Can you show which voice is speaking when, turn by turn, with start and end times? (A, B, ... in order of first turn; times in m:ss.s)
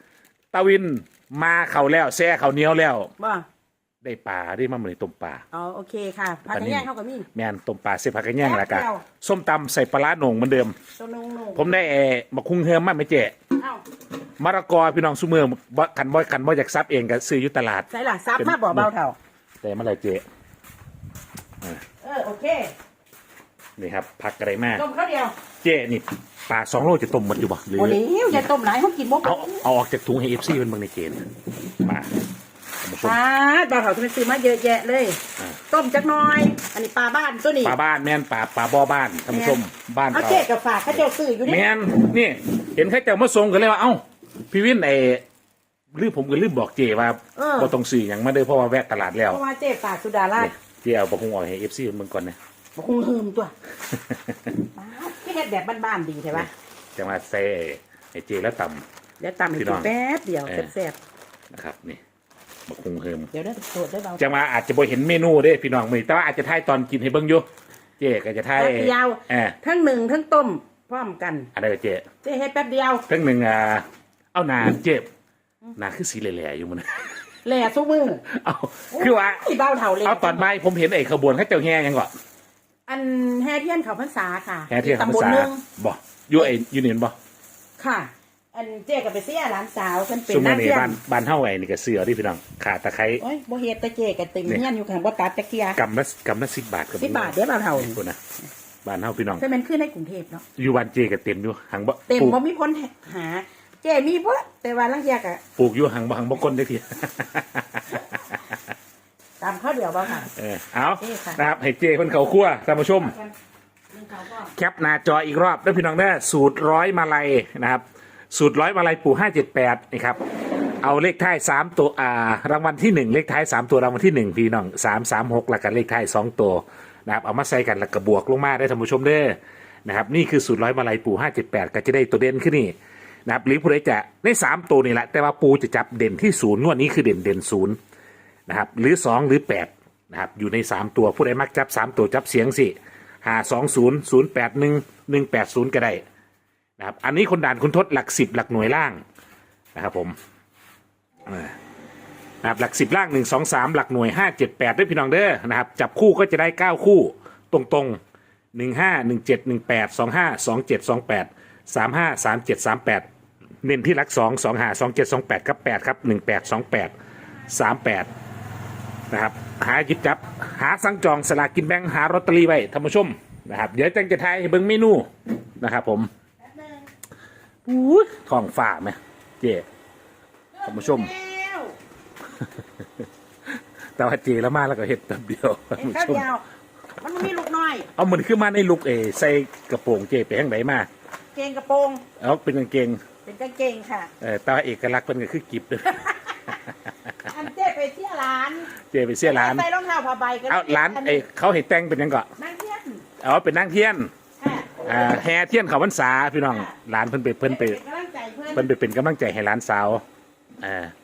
0:00.5-0:03.1 A
0:03.2-0:03.5 B
0:04.0-0:05.4 A
0:05.5-0:07.3 B
0:06.5-0:10.8 A
0:08.4-0:09.0 B
0:11.0-0:11.7 B
0:11.5-0:13.4 A
0:13.6-0:13.8 B
0:14.4-0:18.9 A
0:17.9-0:19.2 B
0:19.6-0:20.2 A
0:22.0-0:22.7 B
0:23.8-0:24.8 A
0:24.8-0:25.3 B
0:25.6-0:28.5 A
0:27.8-0:29.6 B
0:29.2-0:31.2 A
0:31.8-0:32.1 A
0:32.8-0:33.2 A
0:33.0-0:37.8 B
0:37.6-0:45.2 A
0:39.3-0:39.6 B
0:40.1-0:41.7 B
0:45.9-0:49.4 A
0:47.4-0:47.8 B
0:49.3-0:50.5 B
0:50.4-0:52.4 A
0:52.8-0:53.5 B
0:53.9-0:54.5 A
0:54.6-0:56.5 B
0:56.3-0:58.8 A
0:59.2-1:01.0 B
0:59.5-0:59.9 A
1:00.4-1:00.7 A
1:01.5-1:02.0 A
1:02.7-1:03.3 A
1:03.3-1:04.3 B
1:04.2-1:07.5 A
1:08.0-1:09.6 A
1:08.6-1:11.5 B
1:11.5-1:12.1 A
1:12.2-1:13.1 B
1:13.1-1:15.1 A
1:15.8-1:17.1 A
1:17.4-1:18.2 B
1:18.3-1:19.4 A
1:18.9-1:20.5 B
1:20.0-1:22.1 A
1:22.9-1:25.6 B
1:24.7-1:27.2 A
1:27.8-1:31.0 B
1:30.3-1:33.2 A
1:33.2-1:35.8 B
1:35.8-1:38.2 A
1:37.0-1:38.0 B
1:38.8-1:39.4 A
1:39.4-1:40.4 B
1:40.6-1:42.4 A
1:42.1-1:45.4 B
1:45.6-1:48.4 A
1:49.4-1:50.3 B
1:50.1-1:53.2 A
1:50.8-1:51.4 B
1:52.9-1:53.3 B
1:53.9-1:54.5 B
1:54.5-2:00.2 A
2:00.8-2:12.7 A
2:13.3-2:17.8 A
2:18.5-2:26.0 A
2:26.8-2:29.0 A
2:29.8-2:30.2 A
2:31.3-2:31.6 A
2:32.4-2:38.0 A
2:38.5-2:43.1 A
2:43.6-2:46.9 A
2:47.5-2:48.1 A
2:49.1-2:56.1 A
2:56.5-2:56.9 B
2:57.7-2:59.6 A
3:00.6-3:01.8 B
3:00.6-3:01.1 A
3:02.4-3:02.8 A
3:04.0-3:06.3 A
3:05.8-3:06.4 B
3:07.0-3:07.9 B
3:08.0-3:10.9 A
3:11.3-3:12.0 B
3:12.2-3:13.0 A
3:13.2-3:14.1 B
3:14.2-3:17.1 A
3:17.3-3:18.7 B
3:18.9-3:19.7 A
3:19.2-3:21.2 B
3:20.5-3:22.3 A
3:22.4-3:23.0 B
3:23.2-3:24.1 A
3:24.4-3:24.9 B
3:24.8-3:27.8 A
3:26.5-3:26.7 B
3:27.4-3:28.7 B
3:28.5-3:30.0 A
3:30.6-3:30.9 A